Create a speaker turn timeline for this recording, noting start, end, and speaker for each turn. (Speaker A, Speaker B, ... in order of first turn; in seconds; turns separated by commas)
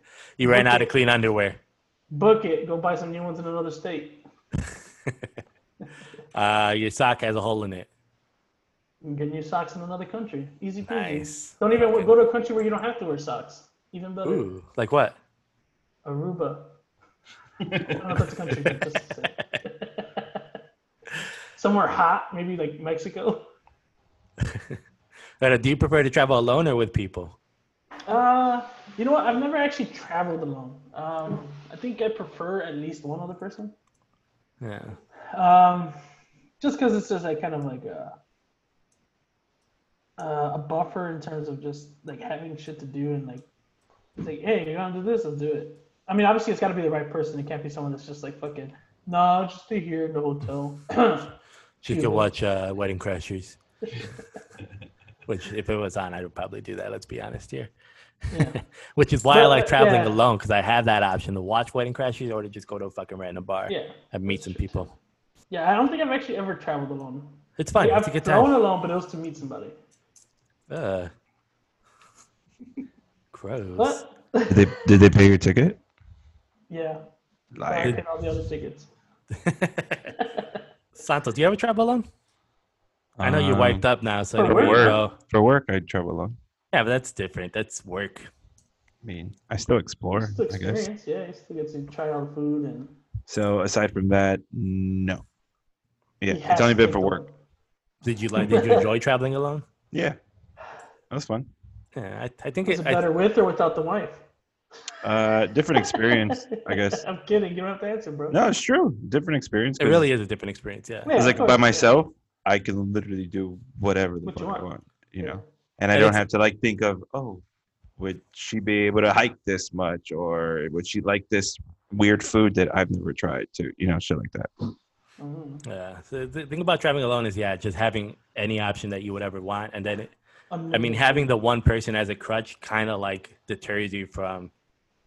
Speaker A: 0.4-1.6, Speaker B: 0.4-0.9, Speaker B: 2.1-4.2, Speaker A: 6.3-7.9, Speaker B: 9.0-14.5, Speaker A: 10.9-12.2, Speaker A: 14.2-15.2, Speaker B: 16.0-16.8, Speaker C: 17.6-18.2, Speaker B: 17.9-20.4, Speaker B: 21.5-23.5, Speaker A: 24.4-24.8, Speaker A: 25.4-27.4, Speaker B: 28.1-33.7, Speaker A: 34.6-35.0, Speaker B: 35.3-35.9, Speaker B: 36.6-38.2, Speaker B: 40.2-43.5, Speaker B: 44.2-51.3, Speaker A: 51.8-53.6, Speaker B: 51.9-52.3, Speaker A: 55.3-57.7, Speaker B: 58.3-58.6, Speaker A: 58.3-64.9, Speaker B: 59.3-60.2, Speaker B: 63.7-64.9, Speaker B: 65.5-69.8, Speaker A: 67.6-68.6, Speaker A: 70.7-71.1, Speaker A: 73.3-74.0, Speaker B: 73.8-74.8, Speaker C: 74.5-75.8, Speaker B: 76.7-77.0, Speaker C: 77.5-78.0, Speaker B: 77.7-78.9, Speaker A: 79.3-80.1, Speaker B: 80.2-80.6, Speaker A: 81.0-82.0, Speaker C: 83.2-83.8, Speaker A: 83.2-85.1, Speaker B: 84.4-85.0, Speaker C: 84.4-86.3, Speaker A: 86.7-88.3, Speaker C: 89.0-90.9, Speaker B: 90.2-93.0, Speaker C: 93.3-95.2, Speaker C: 96.2-97.2, Speaker B: 96.3-97.3, Speaker A: 98.0-99.6, Speaker B: 98.3-98.9, Speaker C: 99.9-100.2, Speaker C: 101.1-101.5, Speaker A: 101.9-103.1, Speaker B: 102.7-104.2, Speaker C: 105.0-107.0, Speaker B: 105.8-108.4, Speaker C: 108.3-110.1, Speaker A: 109.8-111.1, Speaker B: 111.0-111.9, Speaker C: 111.1-117.4, Speaker B: 114.2-115.4, Speaker A: 115.9-116.2, Speaker C: 118.0-124.5, Speaker B: 125.2-125.6, Speaker A: 125.6-130.1, Speaker B: 130.5-131.3, Speaker A: 130.7-134.5